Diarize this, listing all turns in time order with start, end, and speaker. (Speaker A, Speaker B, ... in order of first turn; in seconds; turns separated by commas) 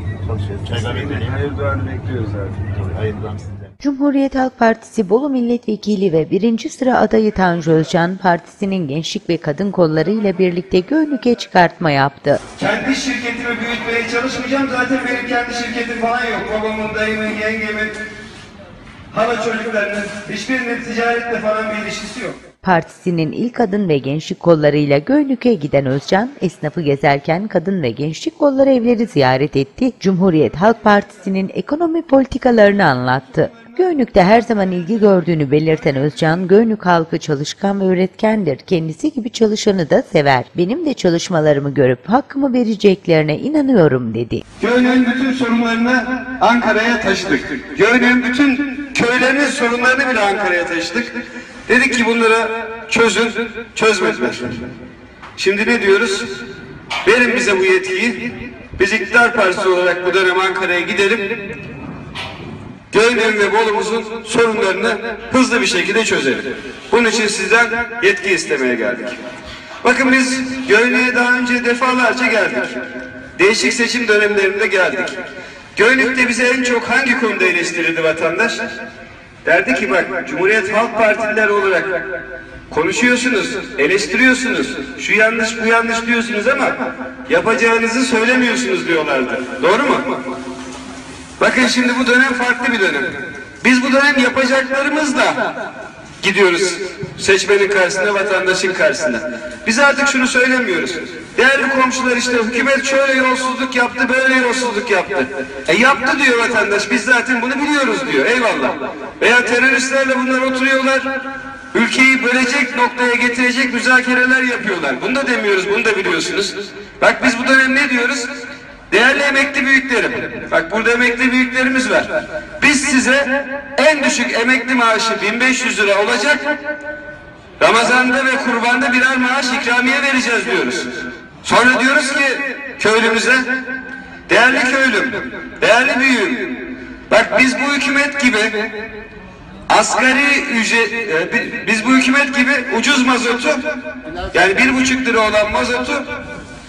Speaker A: 0.2-1.4, Speaker B: 0.7-2.7, Speaker A: 2.7-3.7, Speaker C: 3.8-12.4, Speaker B: 12.6-17.9, Speaker B: 19.1-22.4, Speaker C: 22.6-44.4, Speaker B: 44.6-54.6, Speaker B: 55.4-56.3, Speaker B: 57.0-61.4, Speaker B: 62.9-69.2, Speaker B: 69.8-72.8, Speaker B: 73.4-75.2, Speaker B: 75.8-78.6, Speaker B: 79.4-82.0, Speaker B: 82.7-90.1, Speaker B: 91.4-95.5, Speaker B: 96.2-111.1, Speaker B: 111.7-118.3, Speaker B: 118.9-126.5, Speaker B: 127.6-130.9, Speaker B: 131.4-133.5, Speaker B: 134.3-138.6, Speaker B: 139.7-143.6, Speaker B: 144.3-146.1